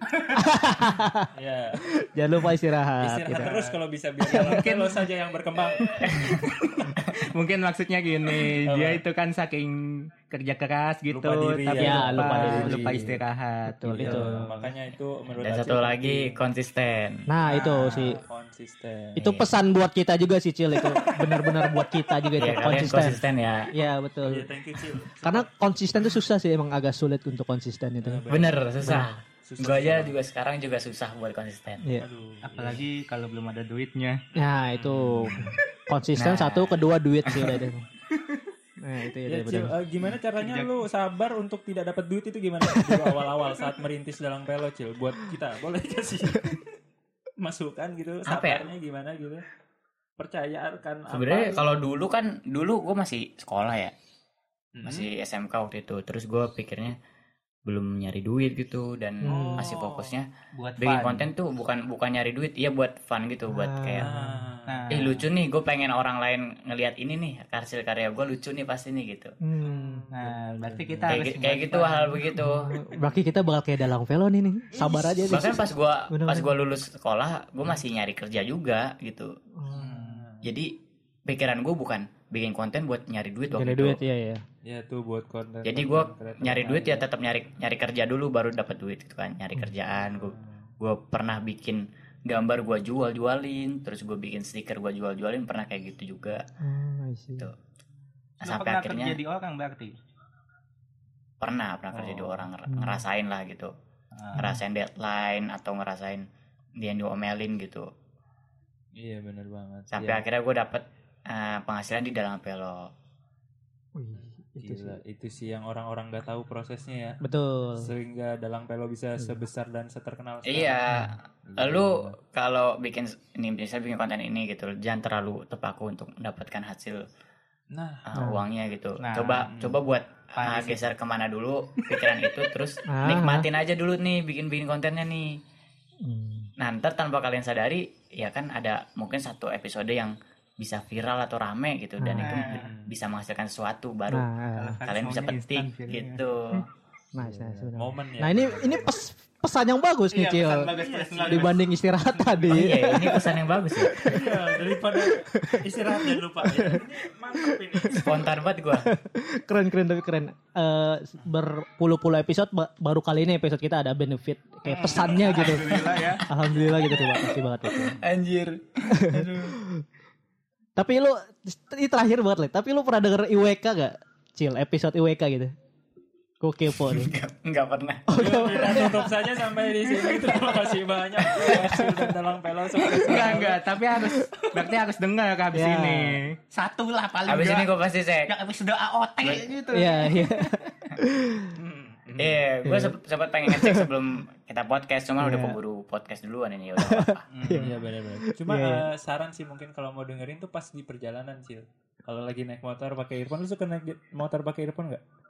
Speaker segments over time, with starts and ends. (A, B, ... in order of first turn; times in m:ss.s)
0:00.1-0:00.4 A
0:00.3-0:01.3 B
0:01.3-0:01.8 C
0:01.9-0:05.0 B
0:03.0-0:07.0 C
0:05.8-0:14.7 A
0:06.0-0:06.5 D
0:08.6-0:09.0 C
0:11.1-0:13.2 C
0:11.7-0:13.1 B
0:13.7-0:14.5 B
0:14.0-0:16.4 C
0:15.4-0:17.3 D
0:17.3-0:18.2 B
0:17.5-0:19.3 C
0:17.5-0:18.1 A
0:19.2-0:23.2 B
0:19.2-0:19.5 D
0:20.8-0:21.9 C
0:22.4-0:23.7 D
0:23.7-0:24.5 B
0:24.2-0:25.5 C
0:25.2-0:28.2 B
0:28.0-0:30.2 C
0:28.3-0:31.8 D
0:28.8-0:29.1 B
0:31.8-0:32.0 B
0:32.0-0:32.8 C
0:32.4-0:34.2 A
0:34.3-0:37.8 B
0:34.8-0:35.6 C
0:36.2-0:36.8 D
0:38.1-0:38.4 A
0:38.8-0:39.7 B
0:39.3-0:46.6 C
0:40.4-0:40.7 A
0:42.9-0:43.1 A
0:47.4-0:49.4 C
0:48.3-0:48.6 D
0:50.2-0:51.6 C
0:51.1-0:53.9 D
0:54.7-0:55.1 C
0:54.8-0:57.0 D
0:57.6-1:00.3 D
0:59.2-0:59.7 B
0:59.3-1:00.1 C
1:00.5-1:01.3 A
1:00.8-1:04.0 D
1:03.5-1:04.4 B
1:04.0-1:04.9 C
1:04.7-1:05.2 A
1:04.9-1:09.3 D
1:09.4-1:10.0 B
1:09.6-1:11.3 C
1:10.1-1:12.2 A
1:11.1-1:12.7 D
1:12.3-1:16.5 B
1:12.7-1:13.2 C
1:14.8-1:15.5 A
1:15.3-1:19.3 D
1:19.6-1:20.0 B
1:19.7-1:20.5 C
1:19.9-1:20.2 A
1:20.4-1:24.0 D
1:23.5-1:24.4 B
1:24.6-1:27.0 C
1:25.6-1:36.4 D
1:30.1-1:30.7 C
1:36.6-1:37.5 B
1:38.4-1:40.0 A
1:38.4-1:39.2 D
1:41.4-1:43.7 D
1:41.9-1:42.5 C
1:42.7-1:43.0 B
1:44.2-1:44.4 A
1:44.3-1:46.2 D
1:46.8-1:47.9 D
1:49.0-1:50.2 C
1:49.9-1:52.9 D
1:54.0-1:55.0 B
1:54.1-1:57.2 C
1:57.2-1:57.9 B
1:57.8-2:00.8 C
2:00.4-2:07.0 D
2:01.4-2:02.2 C
2:07.7-2:08.0 C
2:08.0-2:15.4 D
2:08.1-2:08.4 B
2:09.0-2:09.5 A
2:09.4-2:09.8 C
2:10.4-2:10.8 A
2:12.9-2:13.5 B
2:16.0-2:16.5 B
2:16.6-2:24.3 D
2:22.0-2:22.4 B
2:22.2-2:22.6 A
2:22.5-2:22.9 C
2:24.1-2:24.8 B
2:24.6-2:26.2 A
2:24.8-2:26.6 D
2:27.1-2:35.9 B
2:27.2-2:29.0 C
2:30.1-2:32.6 A
2:30.8-2:31.5 C
2:32.5-2:34.0 D
2:34.0-2:38.2 C
2:36.4-2:36.8 B
2:37.5-2:38.1 B
2:37.9-2:38.9 D
2:38.8-2:48.0 B
2:44.8-2:46.3 A
2:48.0-2:49.6 D
2:48.9-2:49.8 B
2:50.8-2:55.5 B
2:56.4-2:57.1 B
2:56.7-2:58.0 D
2:58.1-2:59.1 B
2:58.1-3:03.6 C
3:01.4-3:02.1 B
3:03.0-3:07.7 A
3:05.5-3:06.2 B
3:07.3-3:08.3 D
3:08.3-3:10.3 A
3:09.2-3:09.5 D
3:09.7-3:11.5 B
3:11.5-3:12.4 C
3:12.2-3:17.2 D
3:12.6-3:13.9 B
3:15.2-3:15.6 B
3:16.8-3:18.9 B
3:17.3-3:17.7 A
3:17.6-3:25.0 C